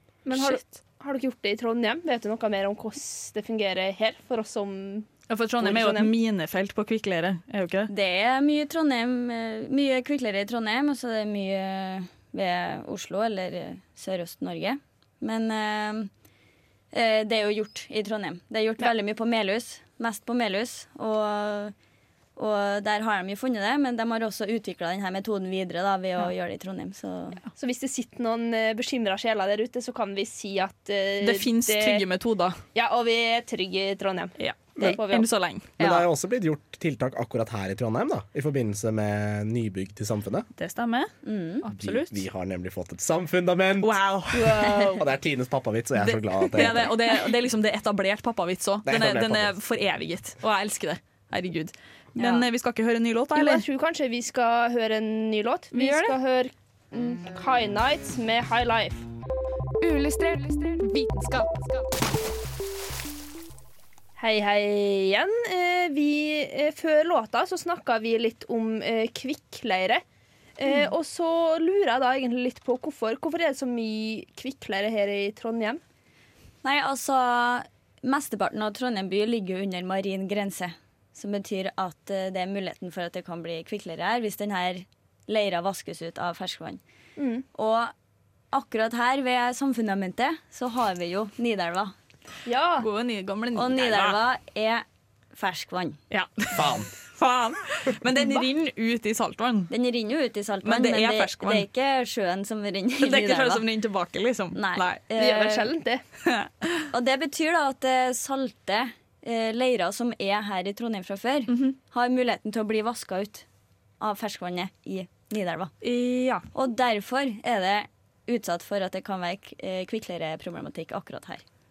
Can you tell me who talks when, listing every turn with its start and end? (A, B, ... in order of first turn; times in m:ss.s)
0:00.2-0:05.1 A
0:00.3-0:00.6 B
0:05.3-0:07.9 B
0:05.6-0:06.1 A
0:07.9-0:16.1 C
0:16.9-0:21.7 C
0:22.4-0:27.4 C
0:27.6-0:32.0 A
0:31.2-0:32.6 B
0:32.7-0:35.3 A
0:34.4-0:35.7 B
0:35.8-0:36.1 C
0:35.8-0:40.5 D
0:40.6-0:41.1 B
0:41.2-0:41.6 C
0:41.6-0:42.2 B
0:41.7-0:44.0 D
0:43.8-0:45.0 B
0:44.3-0:45.0 A
0:44.9-0:46.9 D
0:46.0-0:53.6 B
0:48.8-0:49.6 D
0:52.2-0:52.4 C
0:53.3-0:59.0 A
0:55.7-0:56.2 B
0:59.8-1:01.8 E
1:04.2-1:10.0 A
1:10.6-1:15.8 A
1:16.6-1:26.8 C
1:27.2-1:27.4 A
1:27.5-1:27.9 C
1:28.5-1:31.9 C
1:32.4-1:32.9 A
1:32.8-1:34.2 B
1:33.5-1:36.0 C
1:36.1-1:39.7 B
1:36.5-1:36.9 D
1:39.7-1:43.6 C
1:40.6-1:41.6 B
1:43.0-1:45.0 B
1:44.5-1:45.7 C
1:45.2-1:46.0 A
1:46.2-1:46.9 B
1:46.9-1:53.4 C
1:51.5-1:51.8 B
1:54.0-1:55.7 C
1:55.8-1:56.5 B
1:56.5-2:01.4 C